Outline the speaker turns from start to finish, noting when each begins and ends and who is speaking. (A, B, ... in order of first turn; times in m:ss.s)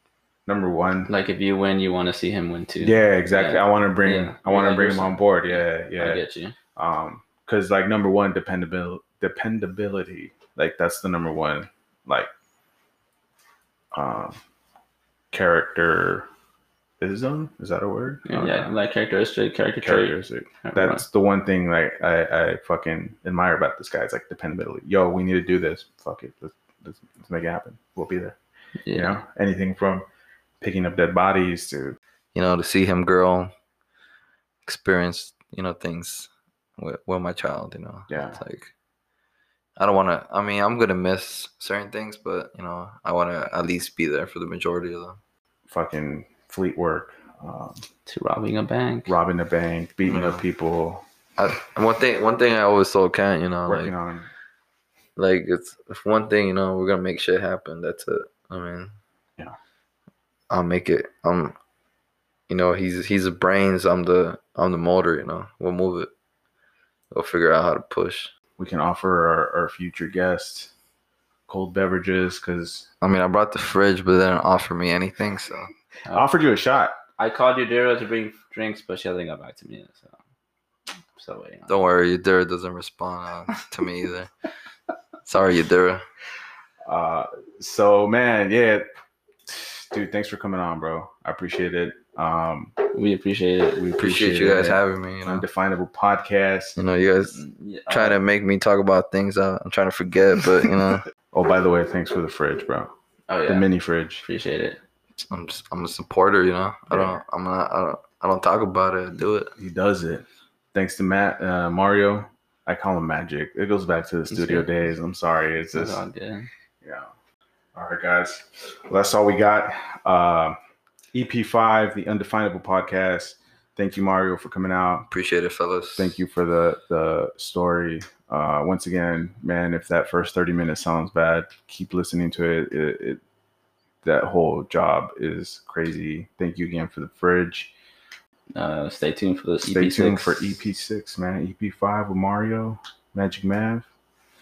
0:00.5-0:01.1 A
0:01.1-0:06.6 B
0:02.8-0:06.2 A
0:06.8-0:12.3 A
0:13.9-0:14.4 A
0:15.3-0:16.3 A
0:17.0-0:18.7 A
0:18.3-0:21.0 B
0:19.8-0:28.4 A
0:28.8-0:29.2 B
0:28.9-0:30.1 A
0:30.6-0:32.0 A
0:32.3-0:33.5 C
0:34.7-0:38.7 C
0:38.1-0:38.4 A
0:39.8-0:45.2 C
0:45.7-0:47.8 A
0:48.1-0:49.2 B
0:49.1-0:51.0 A
0:50.1-0:50.4 C
0:51.4-0:53.9 C
0:53.7-0:54.3 A
0:55.2-0:58.9 C
1:00.5-1:01.6 C
1:02.5-1:06.1 C
1:07.1-1:08.3 C
1:08.6-1:10.7 A
1:11.5-1:12.9 A
1:13.0-1:15.7 C
1:16.1-1:17.0 A
1:17.2-1:20.2 B
1:21.2-1:21.9 B
1:21.7-1:24.3 C
1:25.3-1:26.0 C
1:26.9-1:28.9 A
1:29.5-1:32.8 A
1:32.9-1:33.9 B
1:33.8-1:36.8 A
1:34.0-1:35.4 C
1:36.8-1:41.0 C
1:37.2-1:38.2 B
1:41.3-1:42.9 A
1:43.3-1:43.7 B
1:43.5-1:44.2 A
1:44.2-1:44.8 B
1:45.3-1:49.5 C
1:46.9-1:47.2 A
1:49.6-1:56.0 A
1:54.3-1:54.7 B
1:55.7-1:56.5 B
1:56.8-1:57.1 A
1:57.7-2:00.6 A
2:01.1-2:05.1 A
2:05.1-2:06.2 C
2:06.0-2:13.2 A
2:14.0-2:17.7 A
2:18.5-2:20.6 B
2:19.6-2:23.9 A